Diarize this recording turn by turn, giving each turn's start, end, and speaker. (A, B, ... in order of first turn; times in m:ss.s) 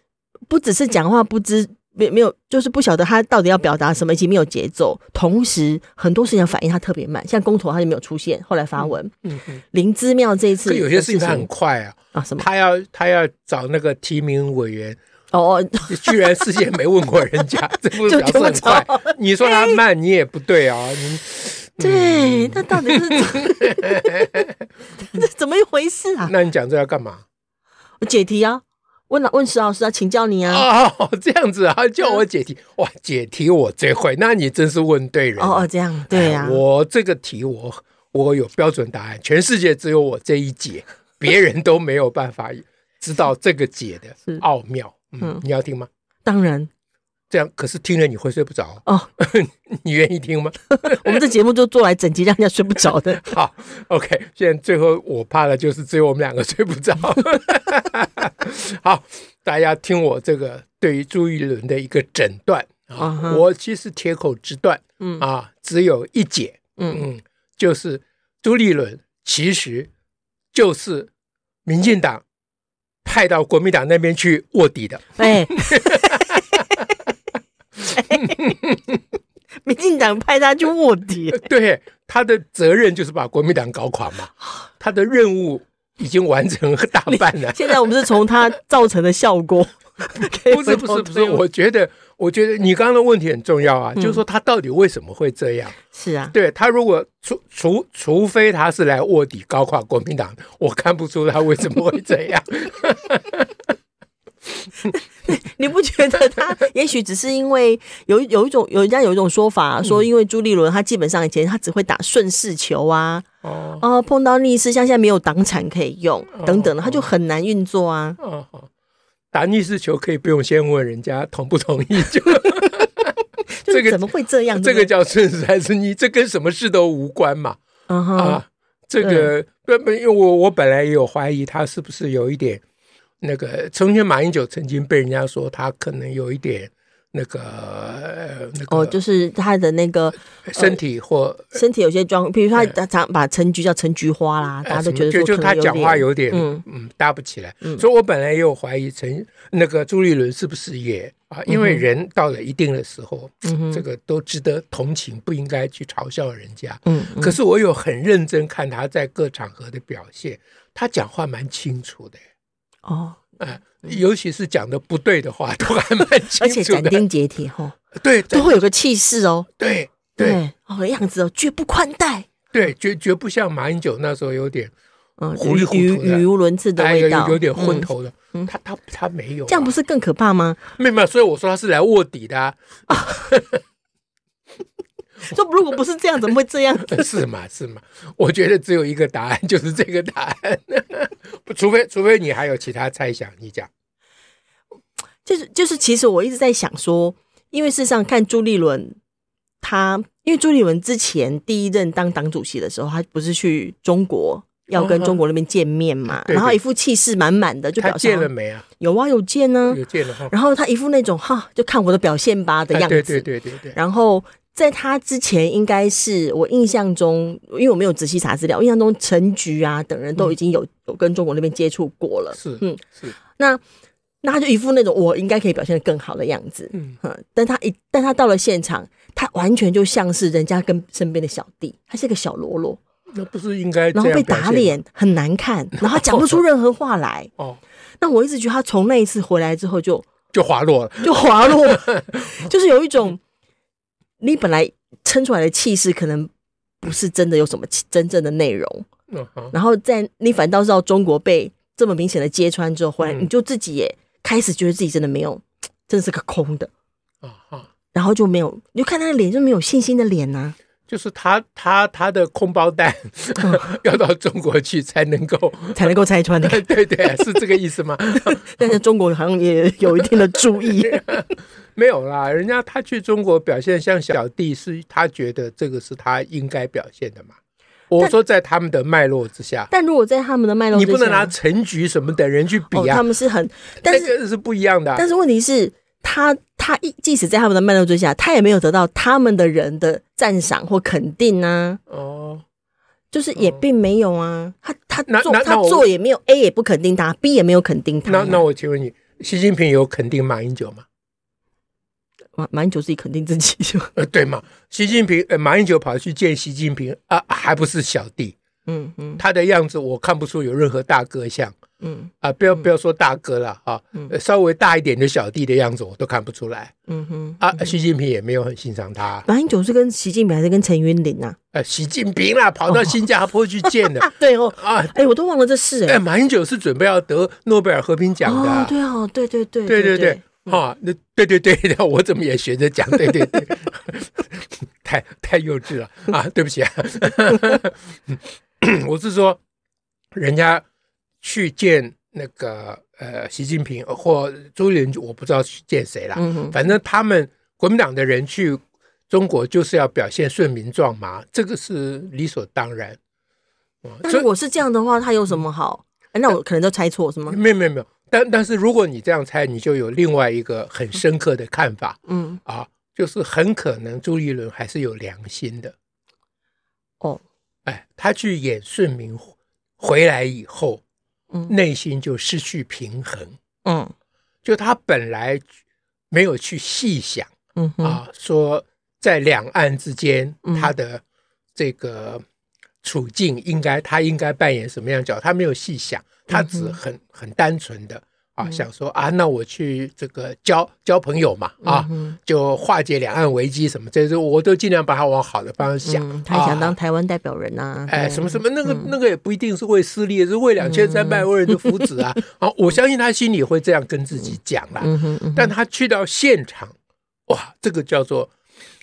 0:00.5-0:09.1 A
0:08.8-0:09.6 B
0:09.7-0:11.5 A
0:10.6-0:15.0 B
0:12.1-0:12.5 A
0:15.3-0:16.4 A
0:15.9-0:24.6 B
0:17.7-0:19.8 A
0:21.8-0:24.4 A
0:25.0-0:26.3 A
0:26.3-0:27.2 B
0:28.0-0:30.7 A
0:30.5-0:45.9 B
0:35.4-0:36.6 A
0:46.2-0:46.7 A
0:47.3-0:51.2 B
0:50.8-0:53.4 A
0:53.1-1:09.9 B
1:03.0-1:03.4 A
1:05.0-1:05.2 A
1:06.8-1:07.0 A
1:10.5-1:11.1 B
1:11.6-1:12.2 B
1:13.0-1:16.9 B
1:15.2-1:16.6 A
1:17.9-1:18.6 A
1:18.1-1:19.0 B
1:19.6-1:21.5 A
1:21.3-1:27.9 B
1:27.1-1:31.4 A
1:30.2-1:35.8 B
1:35.9-1:36.4 A
1:36.3-1:43.6 B
1:44.9-1:53.3 A
1:53.4-1:53.8 B
1:53.8-1:58.2 A
1:56.3-1:57.1 B
1:58.2-1:58.7 B
1:59.3-2:03.2 B
2:03.6-2:04.9 A
2:03.7-2:04.1 B
2:04.6-2:07.6 B
2:07.9-2:08.4 A
2:08.2-2:12.6 B
2:09.0-2:09.3 A
2:13.2-2:19.0 B
2:18.7-2:20.8 A
2:20.5-2:21.6 B
2:21.5-2:26.6 A
2:24.6-2:42.2 B
2:31.5-2:31.8 A
2:33.4-2:33.8 A
2:36.9-2:37.4 A
2:42.9-2:43.2 A
2:43.4-2:47.0 B
2:46.4-2:47.8 A
2:48.0-2:48.6 B
2:48.3-2:49.5 A
2:49.6-2:50.4 B
2:50.2-2:52.3 A
2:52.5-2:54.7 B
2:55.2-2:58.5 A
2:55.4-2:56.2 B
2:56.8-2:59.7 B
2:59.5-3:00.6 A
3:00.8-3:03.6 B
3:02.9-3:03.3 A
3:05.2-3:07.2 A
3:06.9-3:13.7 B
3:15.2-3:19.0 A
3:19.6-3:43.6 A
3:24.8-3:25.2 B
3:26.1-3:26.6 B
3:27.8-3:28.6 B
3:29.7-3:30.3 B
3:32.7-3:33.8 B
3:42.4-3:43.2 B
3:44.2-3:52.8 A
3:53.1-3:54.8 B
3:53.9-3:57.3 A
3:55.8-3:56.4 B
3:58.0-4:00.1 A
4:00.3-4:02.5 B
4:01.0-4:03.2 A
4:04.2-4:06.3 A
4:06.8-4:08.9 A
4:09.1-4:09.5 B
4:09.5-4:16.7 A
4:13.0-4:13.3 B
4:17.2-4:17.7 B
4:17.9-4:20.6 A
4:20.9-4:28.7 B
4:23.4-4:23.7 A
4:25.8-4:26.6 A
4:28.2-4:31.2 A
4:30.0-4:37.4 B
4:37.9-4:39.7 B
4:39.7-4:41.3 A
4:40.7-4:43.0 B
4:42.7-4:44.1 A
4:43.8-4:45.0 B
4:45.0-4:51.8 A
4:51.9-4:52.4 B
4:53.1-4:58.4 A
4:55.1-4:55.9 B
4:58.1-5:00.8 B
5:02.4-5:03.9 A
5:04.0-5:08.4 B
5:08.7-5:09.2 A
5:09.2-5:11.6 B
5:11.8-5:12.1 A
5:12.2-5:16.7 B
5:16.9-5:17.7 A
5:17.4-5:19.3 B
5:19.3-5:21.4 A
5:21.5-5:25.0 B
5:22.7-5:22.9 A
5:23.6-5:26.0 A
5:25.9-5:28.7 B
5:28.2-5:30.6 A
5:29.7-5:39.4 B
5:40.1-5:40.6 B
5:41.2-5:53.0 B
5:46.2-5:46.6 A
5:53.8-5:54.3 B
5:54.0-5:57.4 A
5:57.3-6:05.7 B
6:02.1-6:02.4 A
6:07.7-6:10.8 B
6:11.5-6:13.4 B
6:13.6-6:13.9 A
6:14.4-6:15.4 B
6:16.1-6:17.3 B
6:17.6-6:18.0 A
6:17.8-6:21.0 B
6:20.4-6:20.7 A
6:21.6-6:22.2 B
6:22.8-6:36.8 B
6:26.3-6:26.8 A
6:31.6-6:32.2 A
6:35.8-6:38.9 A
6:37.9-6:46.8 B
6:40.6-6:41.9 A
6:44.8-6:45.5 A
6:47.3-6:48.3 B